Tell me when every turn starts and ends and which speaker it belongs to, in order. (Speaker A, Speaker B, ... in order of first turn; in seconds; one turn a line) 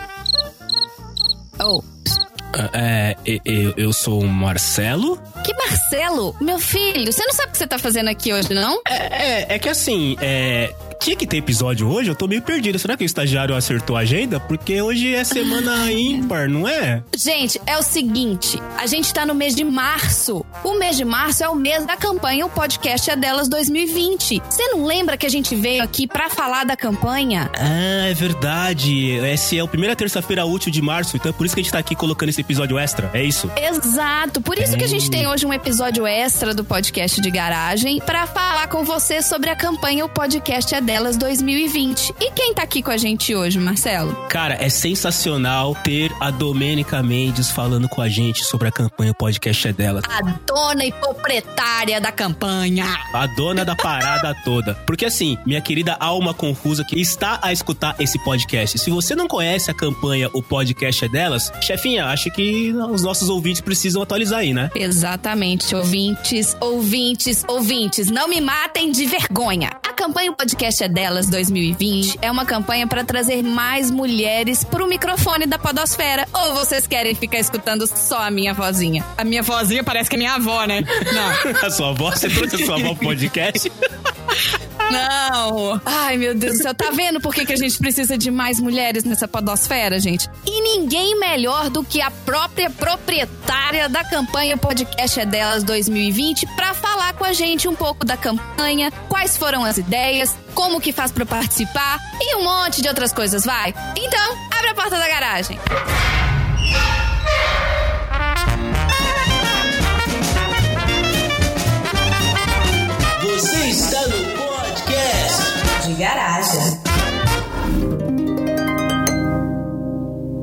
Speaker A: 1.6-1.9
Speaker B: 2.5-5.2
Speaker A: 5.4-8.8
Speaker B: 8.9-17.0
Speaker A: 15.4-15.7
Speaker A: 17.1-27.5
Speaker B: 27.5-33.5
Speaker A: 33.5-44.2
Speaker B: 34.6-35.3
Speaker B: 44.3-50.0
Speaker A: 50.0-53.0
Speaker B: 53.1-64.7
Speaker A: 64.7-81.4
Speaker B: 80.9-83.7
Speaker A: 82.3-82.9
Speaker A: 84.9-105.6
Speaker B: 113.2-115.5
Speaker A: 115.8-116.8